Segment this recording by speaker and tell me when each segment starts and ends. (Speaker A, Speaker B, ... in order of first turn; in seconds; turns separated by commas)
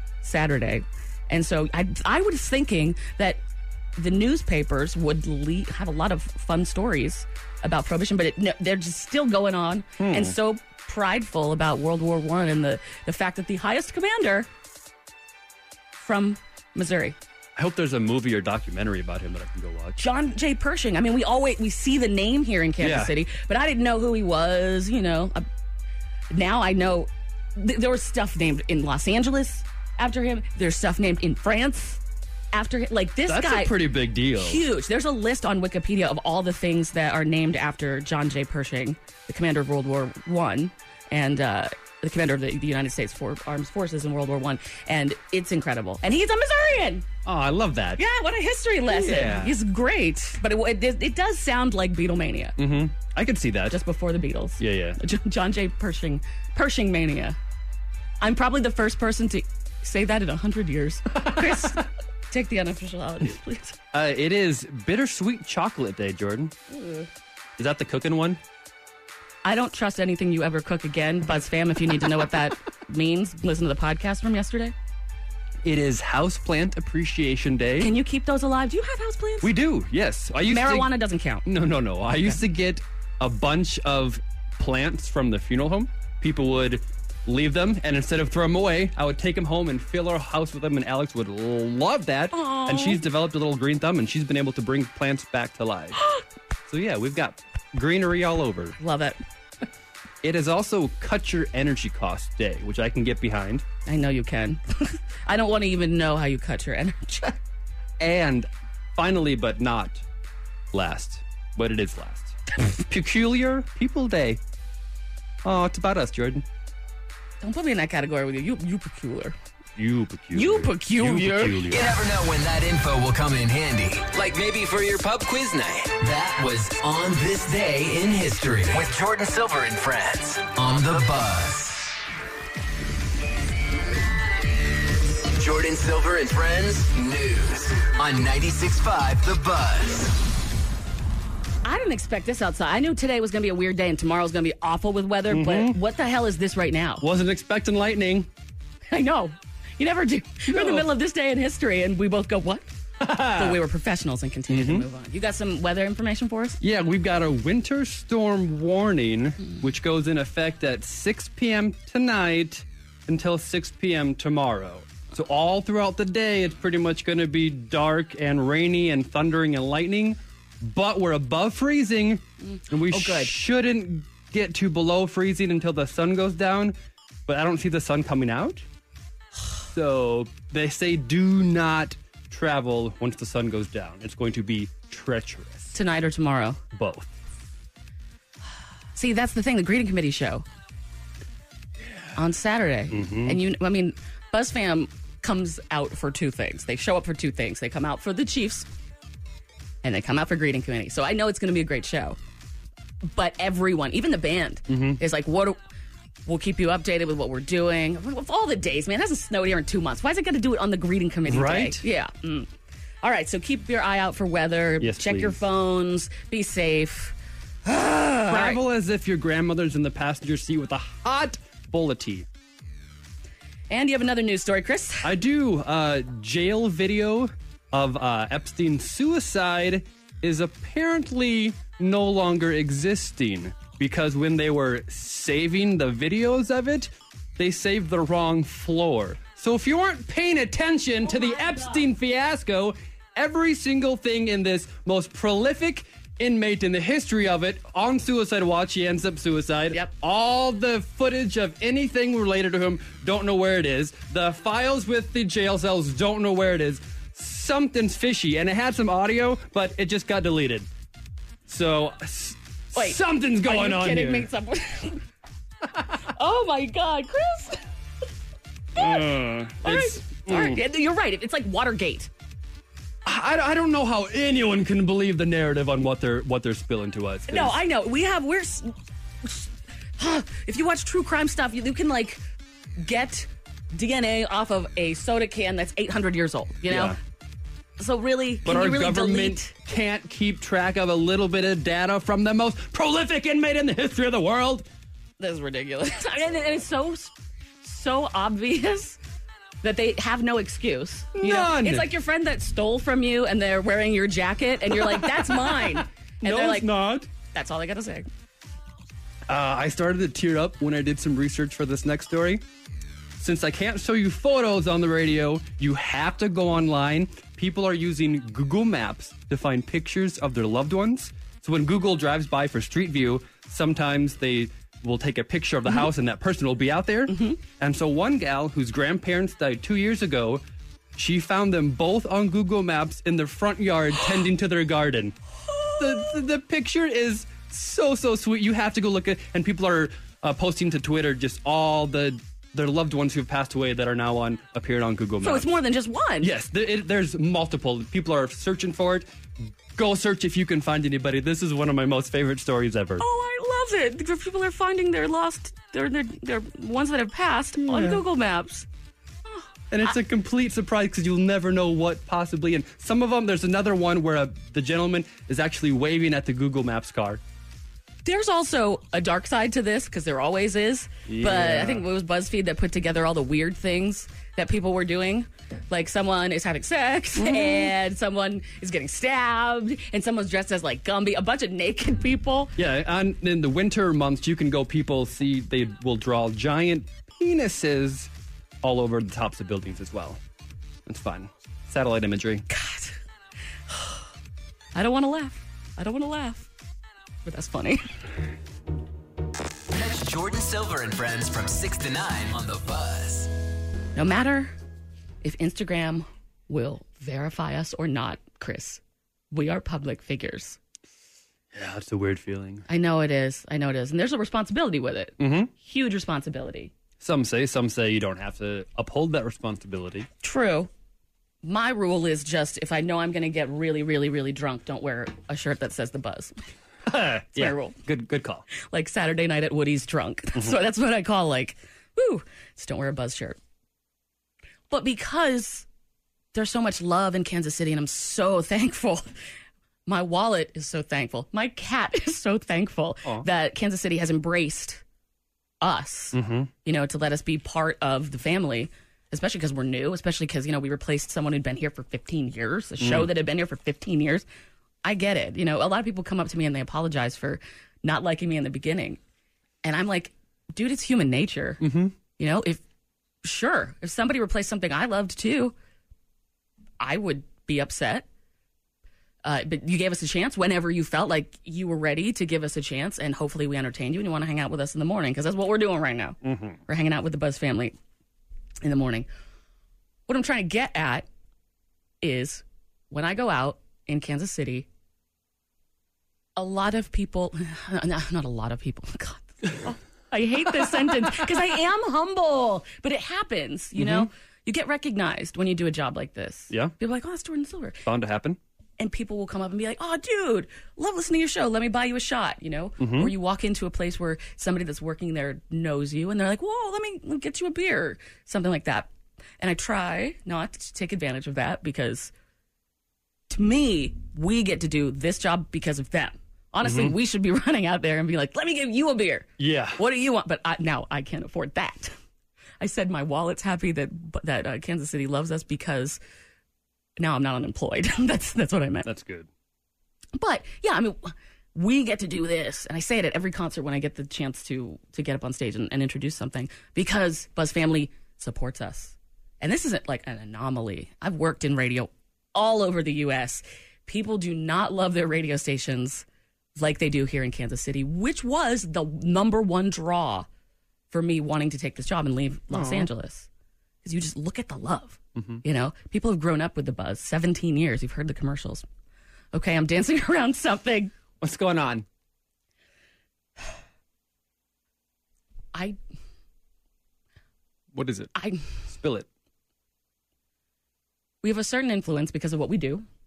Speaker A: 0.2-3.4, Speaker A: 4.0-14.5, Speaker B: 10.0-10.3, Speaker A: 16.0-17.1, Speaker B: 17.6-20.0, Speaker A: 20.0-25.4, Speaker B: 22.8-23.1, Speaker A: 26.3-32.0, Speaker A: 32.5-33.7, Speaker B: 33.3-34.6, Speaker A: 34.4-47.0, Speaker B: 47.2-48.0, Speaker A: 48.0-52.6, Speaker B: 48.9-49.5, Speaker B: 52.6-53.8, Speaker A: 53.7-57.4, Speaker B: 54.6-55.0, Speaker A: 58.2-63.8, Speaker B: 61.2-61.6, Speaker B: 63.9-66.5, Speaker A: 66.7-67.1, Speaker B: 67.6-68.4, Speaker A: 69.4-74.7, Speaker B: 75.6-77.9, Speaker A: 77.8-79.5, Speaker B: 79.4-80.9, Speaker A: 80.5-81.5, Speaker B: 81.4-96.0, Speaker A: 92.3-93.0, Speaker B: 96.7-98.8, Speaker A: 98.8-99.2, Speaker B: 100.2-103.6, Speaker A: 103.8-107.4, Speaker B: 108.0-110.0, Speaker B: 110.7-114.4, Speaker B: 115.4-116.4, Speaker A: 117.4-119.3, Speaker B: 119.8-122.0, Speaker A: 120.3-121.6, Speaker C: 121.7-131.9, Speaker C: 135.3-140.1, Speaker A: 141.6-147.0, Speaker B: 145.3-145.8, Speaker B: 147.0-148.3, Speaker A: 148.9-152.7, Speaker B: 150.5-150.9, Speaker B: 153.0-153.6, Speaker A: 153.3-156.6, Speaker B: 154.5-154.8, Speaker B: 156.6-176.7, Speaker A: 172.4-173.3, Speaker B: 177.3-178.6, Speaker B: 179.7-185.8, Speaker A: 185.7-186.6, Speaker B: 186.7-187.1, Speaker A: 188.9-190.4, Speaker A: 192.2-198.7, Speaker B: 192.9-193.4, Speaker A: 199.8-202.2, Speaker A: 203.0-205.6, Speaker B: 204.7-205.0, Speaker A: 206.2-212.5, Speaker B: 211.2-211.8, Speaker A: 213.0-218.6, Speaker B: 214.8-215.4, Speaker B: 218.3-222.3, Speaker A: 223.7-225.1, Speaker B: 225.0-260.7, Speaker A: 241.0-241.8, Speaker B: 261.5-264.3, Speaker A: 262.7-265.0, Speaker A: 266.1-267.6, Speaker A: 268.7-272.1, Speaker B: 268.8-270.6, Speaker B: 273.0-277.6, Speaker A: 277.3-282.2, Speaker A: 282.8-286.9, Speaker B: 286.7-287.0, Speaker A: 287.8-289.5, Speaker B: 288.4-294.6, Speaker A: 295.2-299.0, Speaker A: 299.6-306.7, Speaker B: 301.2-301.9, Speaker B: 304.7-307.1, Speaker A: 307.3-308.1, Speaker B: 309.3-312.4, Speaker B: 313.2-330.4, Speaker A: 327.1-327.4, Speaker B: 330.9-335.2, Speaker A: 335.4-336.2, Speaker B: 335.8-345.5, Speaker A: 345.2-346.3, Speaker B: 346.2-349.1, Speaker B: 349.7-353.0, Speaker A: 353.0-358.7, Speaker B: 357.6-358.0, Speaker A: 359.2-360.0, Speaker B: 359.7-367.2, Speaker A: 368.0-382.5, Speaker B: 371.1-371.9, Speaker B: 377.2-377.7, Speaker B: 382.6-388.1, Speaker B: 388.6-390.2, Speaker B: 390.9-392.4, Speaker A: 392.5-393.0, Speaker A: 394.7-396.5, Speaker A: 397.2-397.8, Speaker C: 399.7-403.3, Speaker A: 403.9-404.5, Speaker A: 405.2-410.6, Speaker B: 411.5-412.6, Speaker A: 412.7-416.7, Speaker B: 415.2-415.5, Speaker B: 417.0-420.1, Speaker A: 420.2-420.7, Speaker A: 421.4-426.3, Speaker B: 426.9-428.5, Speaker A: 427.4-427.8, Speaker A: 428.5-433.4, Speaker A: 434.7-435.6, Speaker A: 436.3-439.1, Speaker A: 439.9-444.8, Speaker A: 445.6-454.2, Speaker B: 446.1-446.5, Speaker B: 452.8-453.1, Speaker A: 454.8-459.0, Speaker A: 459.6-461.6, Speaker B: 461.6-461.9, Speaker A: 462.2-462.6, Speaker A: 463.2-465.5, Speaker A: 466.8-468.1, Speaker A: 469.2-477.7, Speaker B: 476.2-476.6, Speaker A: 478.6-479.1, Speaker A: 480.1-481.1, Speaker A: 482.0-484.7, Speaker A: 486.4-497.8, Speaker B: 493.8-494.1, Speaker B: 497.8-498.4, Speaker A: 498.8-512.1, Speaker B: 502.8-503.1, Speaker A: 513.3-521.9, Speaker B: 516.6-516.9, Speaker B: 519.4-519.8, Speaker A: 522.6-526.0, Speaker A: 527.0-528.9, Speaker B: 528.8-529.3, Speaker A: 530.1-546.0, Speaker A: 546.5-550.3, Speaker A: 550.9-553.3, Speaker B: 552.5-552.9, Speaker A: 553.8-558.6, Speaker B: 555.1-555.4, Speaker A: 559.3-560.9, Speaker B: 561.2-561.8, Speaker B: 567.7-568.1, Speaker A: 568.1-568.5, Speaker B: 568.7-569.1, Speaker A: 571.2-572.9